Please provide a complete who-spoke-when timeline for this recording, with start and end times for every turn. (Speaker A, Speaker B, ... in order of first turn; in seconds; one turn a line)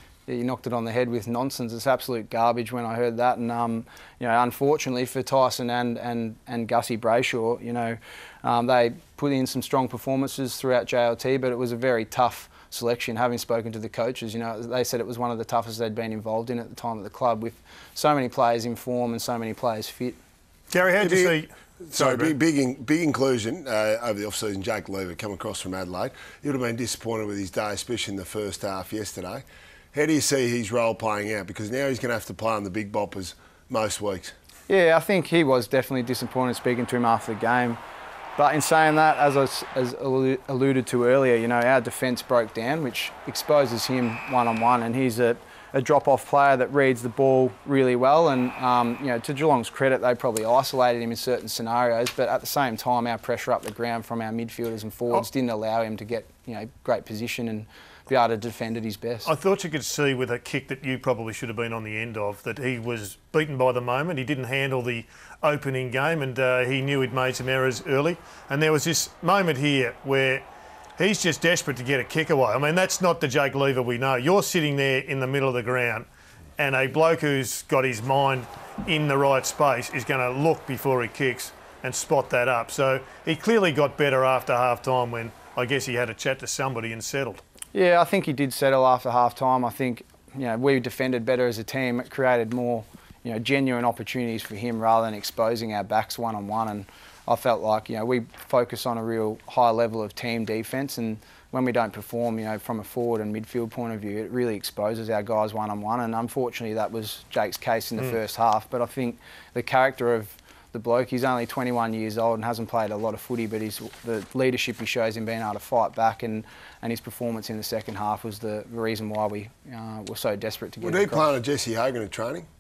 Speaker A: 0.3-20.2
Speaker B: 20.7-22.4
Speaker C: 21.0-34.4
Speaker A: 34.7-37.8
Speaker A: 38.4-59.3
Speaker B: 59.2-70.5
Speaker B: 71.0-87.4
Speaker A: 87.7-121.3
Speaker C: 120.8-122.5